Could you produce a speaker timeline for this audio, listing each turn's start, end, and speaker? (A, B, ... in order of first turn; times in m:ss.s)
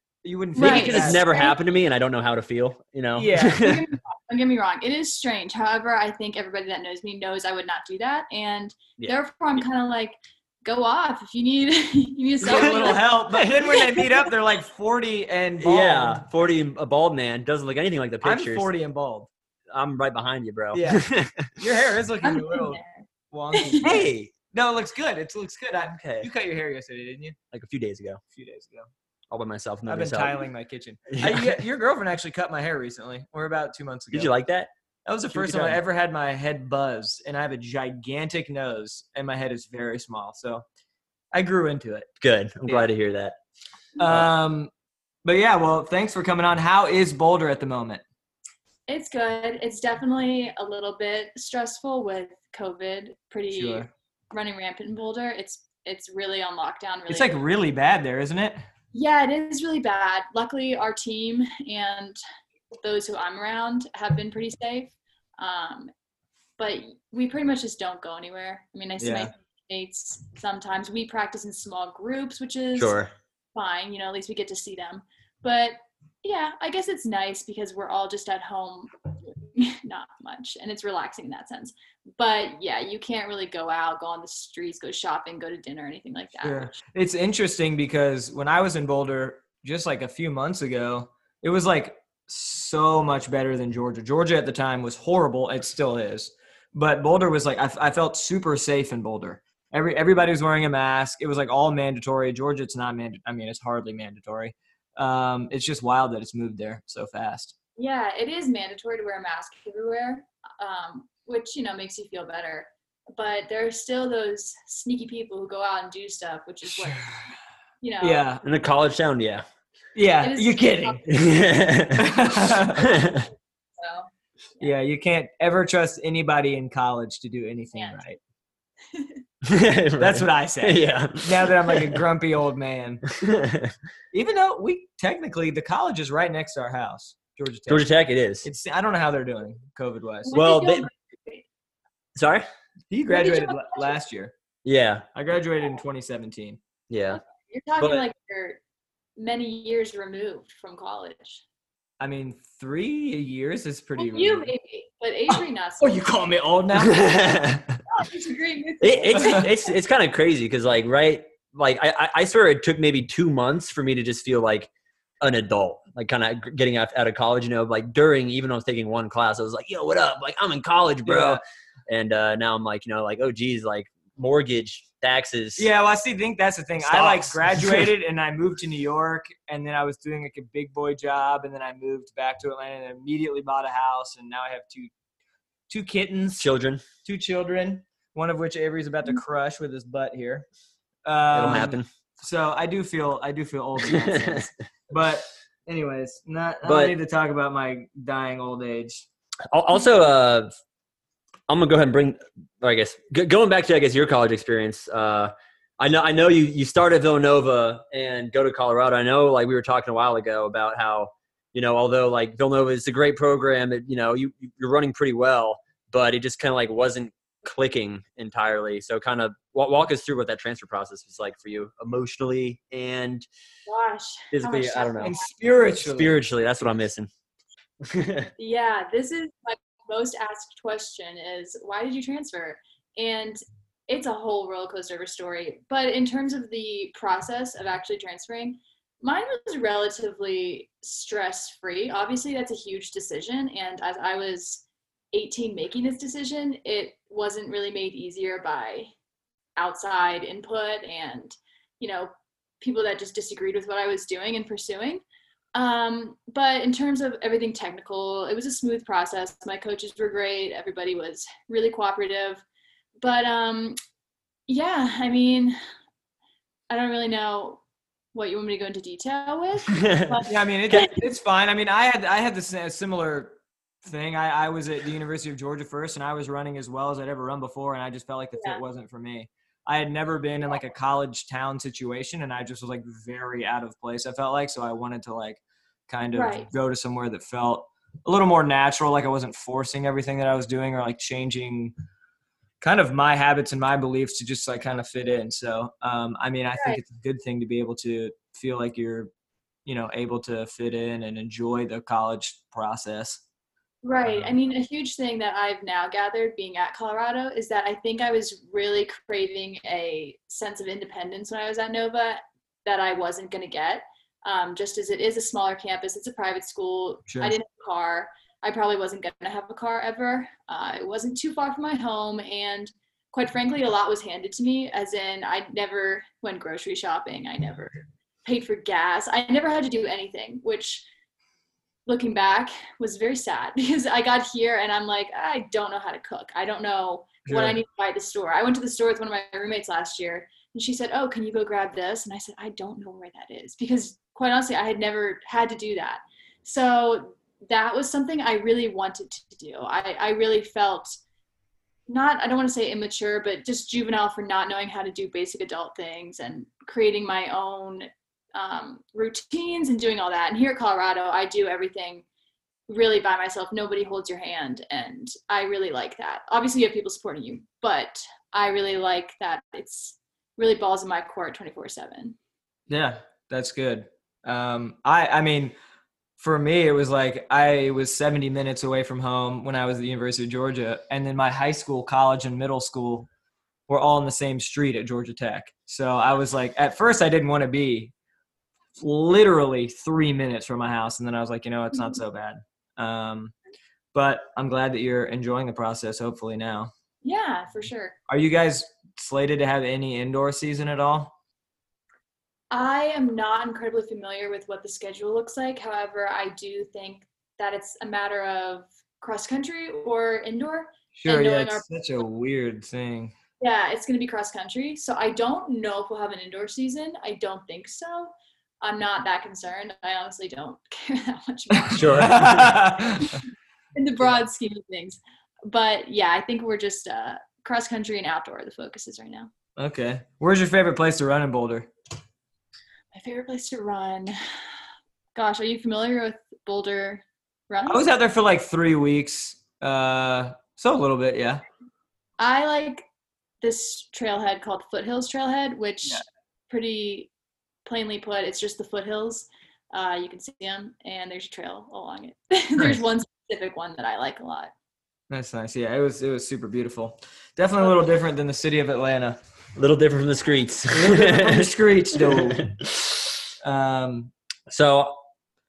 0:00.2-0:01.2 A
0:00.6-0:01.6 B
0:00.6-0:03.8 C
0:03.2-0:03.7 A
0:03.5-0:14.3 B
0:12.4-0:16.2 A
0:12.7-0:13.0 C
0:15.6-0:18.7 C
0:18.2-0:19.3 A
0:19.7-0:21.5 C
0:20.7-0:22.8 A
0:22.2-0:24.0 B
0:23.3-0:27.4 A
0:23.8-0:24.3 C
0:25.9-0:26.3 C
0:27.5-0:28.2 C
0:28.3-0:28.9 A
0:29.3-0:30.4 C
0:29.9-0:34.3 A
0:31.1-0:31.6 C
0:34.1-0:34.7 C
0:35.0-0:40.6 A
0:35.3-0:35.8 C
0:41.3-0:42.1 A
0:42.2-0:43.4 C
0:44.0-0:44.7 A
0:45.2-0:48.0 A
0:48.9-0:57.4 B
0:53.5-0:53.9 A
0:57.1-0:58.6 A
0:58.9-1:02.2 B
1:02.8-1:05.9 B
1:06.6-1:13.0 B
1:09.0-1:09.3 A
1:12.8-1:13.1 C
1:13.5-1:26.8 B
1:26.4-1:47.5 A
1:47.8-1:58.2 B
1:58.0-1:58.4 A
1:58.4-1:59.4 C
1:59.9-2:01.0 A
2:00.2-2:01.1 B
2:01.1-2:03.3 C
2:02.0-2:02.9 A
2:03.8-2:04.7 B
2:04.6-2:08.2 A
2:07.7-2:08.0 B
2:08.9-2:09.2 B
2:09.4-2:12.0 C
2:10.0-2:13.0 A
2:13.1-2:13.7 C
2:14.1-2:17.8 A
2:17.7-2:18.5 C
2:18.4-2:20.3 A
2:20.2-2:21.4 B
2:20.3-2:20.9 C
2:22.2-2:22.4 C
2:22.9-2:24.3 A
2:23.1-2:24.0 B
2:24.6-2:25.0 C
2:25.1-2:26.6 A
2:26.9-2:27.2 C
2:27.2-2:28.6 B
2:27.8-2:28.0 C
2:29.2-2:31.4 B
2:32.0-2:34.5 A
2:34.0-2:36.0 B
2:35.3-2:37.4 A
2:36.8-2:37.7 C
2:37.9-2:39.5 B
2:38.8-2:44.7 C
2:39.2-2:39.4 A
2:45.2-2:55.7 C
2:51.0-2:51.4 A
2:55.6-3:04.9 A
2:56.8-2:57.9 C
3:05.7-3:06.5 A
3:06.4-3:06.8 C
3:07.0-3:10.4 A
3:11.0-3:19.0 A
3:11.3-3:11.9 C
3:13.9-3:14.5 C
3:16.6-3:16.9 C
3:19.5-3:20.5 C
3:21.5-3:43.3 C
3:43.7-3:45.3 B
3:44.3-3:45.2 C
3:45.0-3:46.2 A
3:45.8-3:47.1 C
3:47.8-3:48.3 C
3:48.4-4:08.9 B
4:09.6-4:15.0 B
4:15.5-4:22.4 B
4:23.0-4:23.8 B
4:24.5-4:25.6 B
4:26.7-4:27.6 B
4:28.1-4:31.0 B
4:29.7-4:30.2 C
4:30.3-4:51.7 A
4:38.4-4:38.6 B
4:46.1-4:46.5 B
4:52.6-4:59.1 A
4:56.6-4:56.8 B
4:59.6-5:03.2 A
5:03.8-5:30.8 B
5:17.1-5:17.4 A
5:31.8-5:50.9 B
5:37.2-5:37.6 A
5:51.9-6:02.0 B
6:02.7-6:12.2 B
6:12.7-6:15.5 A
6:16.2-6:23.1 A
6:23.7-6:27.9 A
6:28.8-6:33.3 A
6:33.9-6:36.7 A
6:37.0-6:37.9 B
6:38.1-6:41.1 A
6:42.5-6:51.7 B
6:50.9-6:53.1 A
6:53.4-7:02.2 B
7:01.7-7:03.2 A
7:01.7-7:02.5 C
7:03.7-7:09.3 B
7:09.6-7:11.7 A
7:12.9-7:14.2 B
7:15.1-7:17.9 B
7:17.7-7:21.4 A
7:22.2-7:22.8 B
7:23.4-7:27.1 B
7:27.6-7:34.5 B
7:35.1-7:39.2 A
7:39.6-7:43.1 C
7:40.7-7:42.5 A
7:43.4-7:44.1 A
7:44.5-7:45.0 C